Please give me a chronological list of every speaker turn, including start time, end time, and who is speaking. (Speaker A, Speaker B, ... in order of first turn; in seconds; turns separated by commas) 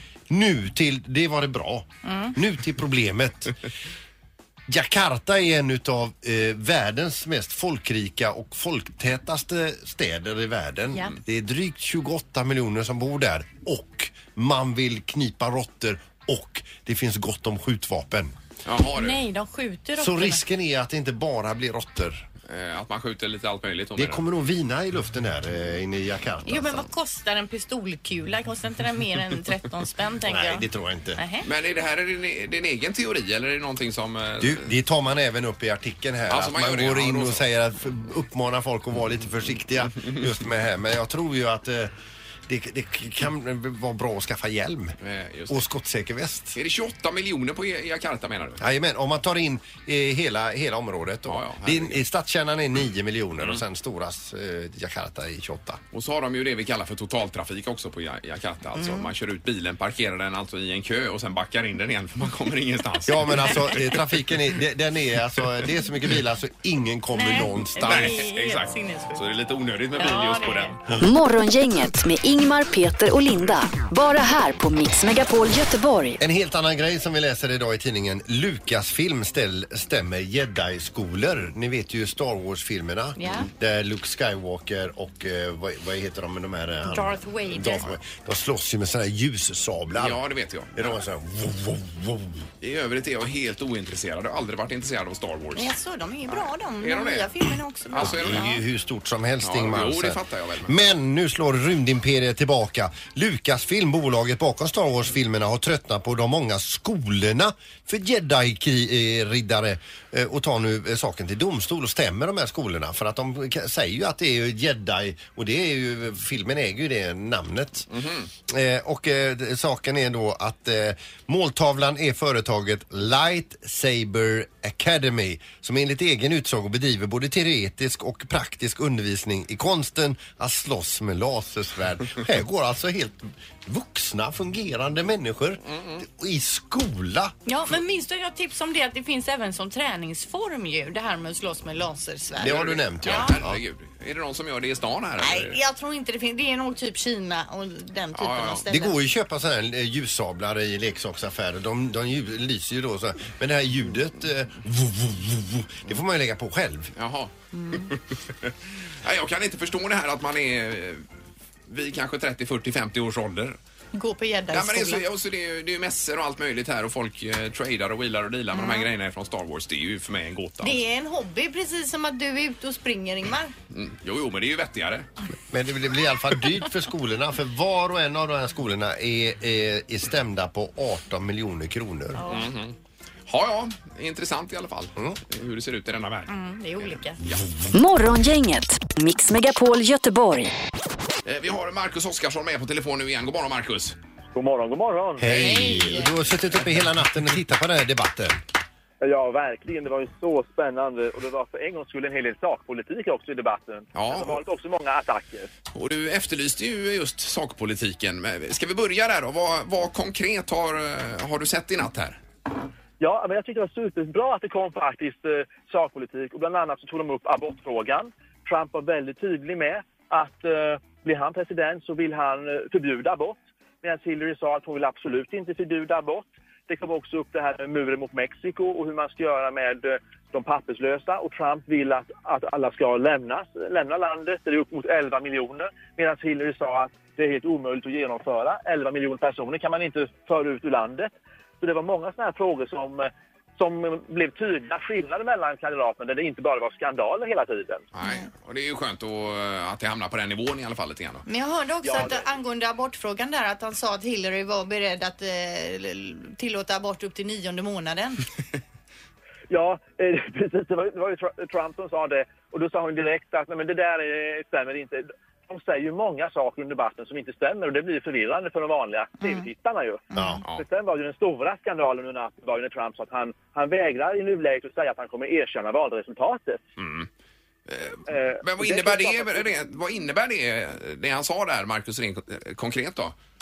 Speaker A: 0.3-3.6, Speaker B: 2.0-2.3, Speaker A: 4.7-18.3, Speaker C: 18.6-19.2, Speaker B: 18.9-20.4, Speaker A: 20.0-22.3, Speaker C: 22.5-24.2, Speaker A: 24.0-26.9, Speaker B: 26.5-30.6, Speaker A: 30.3-31.2, Speaker B: 31.2-31.4, Speaker C: 31.4-34.7, Speaker A: 34.4-41.9, Speaker C: 36.3-37.4, Speaker A: 42.5-45.0, Speaker C: 45.0-45.6, Speaker A: 45.5-46.6, Speaker C: 46.5-48.6, Speaker A: 48.6-55.8, Speaker C: 51.3-52.0, Speaker C: 55.9-64.0, Speaker B: 58.8-59.1, Speaker A: 63.1-68.2, Speaker B: 67.1-69.3, Speaker C: 67.8-70.8, Speaker B: 70.0-70.8, Speaker D: 71.0-76.2, Speaker A: 76.2-90.2, Speaker B: 83.2-83.5, Speaker B: 86.9-87.9, Speaker C: 90.0-90.9, Speaker A: 90.8-92.5, Speaker C: 92.6-95.7, Speaker B: 95.6-98.6, Speaker C: 96.8-98.5, Speaker A: 98.0-117.9, Speaker C: 99.4-100.8, Speaker C: 117.9-118.3, Speaker A: 118.5-137.3, Speaker C: 135.7-136.0, Speaker B: 137.5-143.3, Speaker A: 142.4-143.6, Speaker C: 142.4-145.6, Speaker B: 145.2-149.0, Speaker C: 148.2-148.7, Speaker A: 148.7-156.9, Speaker C: 157.0-161.1, Speaker B: 157.5-157.9, Speaker C: 161.7-163.6, Speaker B: 163.9-165.0, Speaker C: 164.5-170.8, Speaker B: 168.5-168.9, Speaker B: 170.6-173.5, Speaker C: 173.7-175.1, Speaker A: 175.5-182.2, Speaker B: 182.2-182.5, Speaker C: 182.3-182.8, Speaker C: 183.3-187.4, Speaker B: 186.3-187.2, Speaker D: 187.7-190.5, Speaker C: 191.2-194.0, Speaker E: 194.3-195.7, Speaker A: 195.2-198.4, Speaker B: 195.3-196.1, Speaker E: 199.0-205.5, Speaker C: 203.9-204.4, Speaker C: 205.7-212.2, Speaker E: 213.0-247.8, Speaker C: 247.9-251.2, Speaker B: 251.3-258.2, Speaker E: 251.8-252.3, Speaker E: 259.5-276.6, Speaker B: 270.1-270.4, Speaker A: 270.1-270.4, Speaker C: 276.8-277.1, Speaker C: 277.7-283.1, Speaker E: 278.1-279.5